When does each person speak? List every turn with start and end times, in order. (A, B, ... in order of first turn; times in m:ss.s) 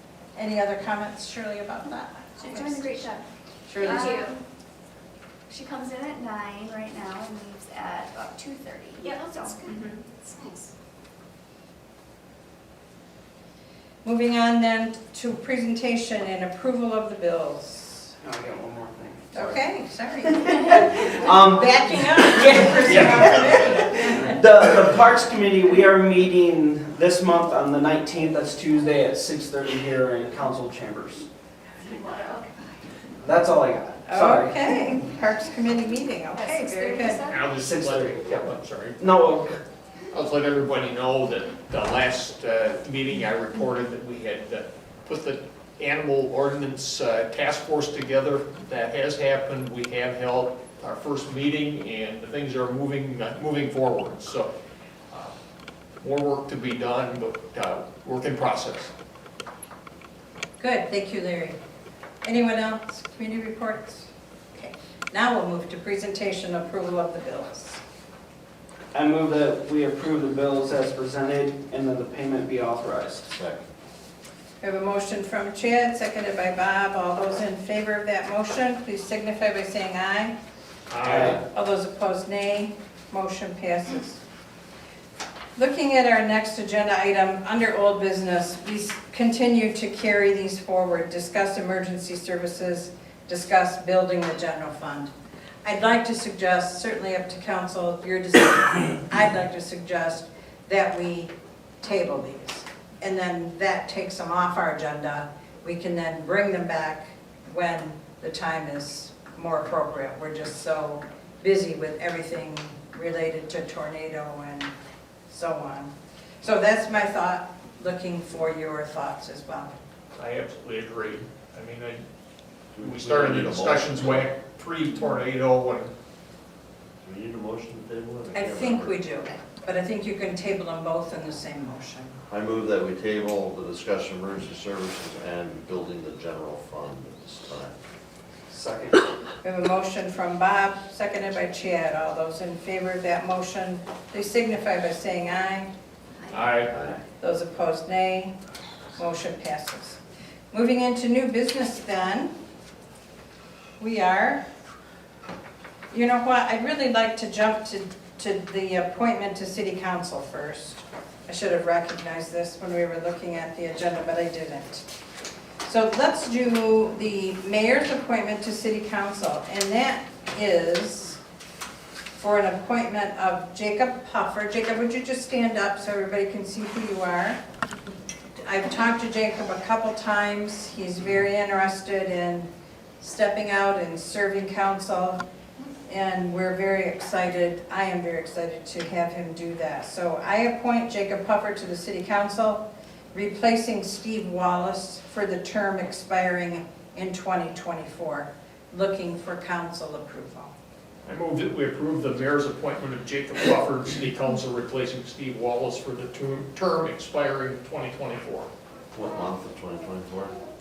0:00.4-0:03.2 A
0:02.4-0:03.2 B
0:03.7-0:04.2 A
0:03.8-0:04.4 B
0:03.8-0:04.4 C
0:05.5-0:10.0 B
0:09.0-0:10.4 C
0:14.0-0:18.1 A
0:18.2-0:19.6 D
0:19.3-0:24.3 A
0:20.4-0:31.3 D
0:22.9-0:23.3 E
0:33.2-0:34.9 D
0:34.1-0:37.2 A
0:36.3-0:37.4 B
0:37.2-0:39.0 E
0:37.5-0:39.6 D
0:40.1-0:54.5 E
0:56.0-0:58.9 E
1:00.6-1:01.6 A
1:02.2-1:07.8 A
1:08.9-1:13.3 D
1:13.3-1:13.6 F
1:14.6-1:20.3 A
1:20.9-1:21.4 E
1:21.1-1:24.2 A
1:25.6-1:35.1 A
1:35.6-1:54.7 A
1:55.3-1:59.7 A
2:00.2-2:02.0 E
2:02.7-2:04.3 F
2:02.8-2:05.9 E
2:07.0-2:09.0 F
2:08.3-2:12.1 A
2:12.3-2:17.8 F
2:18.5-2:19.0 D
2:19.4-2:25.7 A
2:26.3-2:26.8 E
2:26.7-2:27.0 F
2:27.2-2:28.3 A
2:29.0-2:30.0 A
2:30.5-2:32.3 A
2:33.8-2:34.4 A
2:35.9-2:44.8 A
2:45.6-2:51.2 A
2:52.2-2:57.4 A
2:58.4-3:02.5 A
3:03.0-3:05.2 A
3:05.9-3:20.5 A
3:21.0-3:28.5 E
3:28.9-3:30.3 F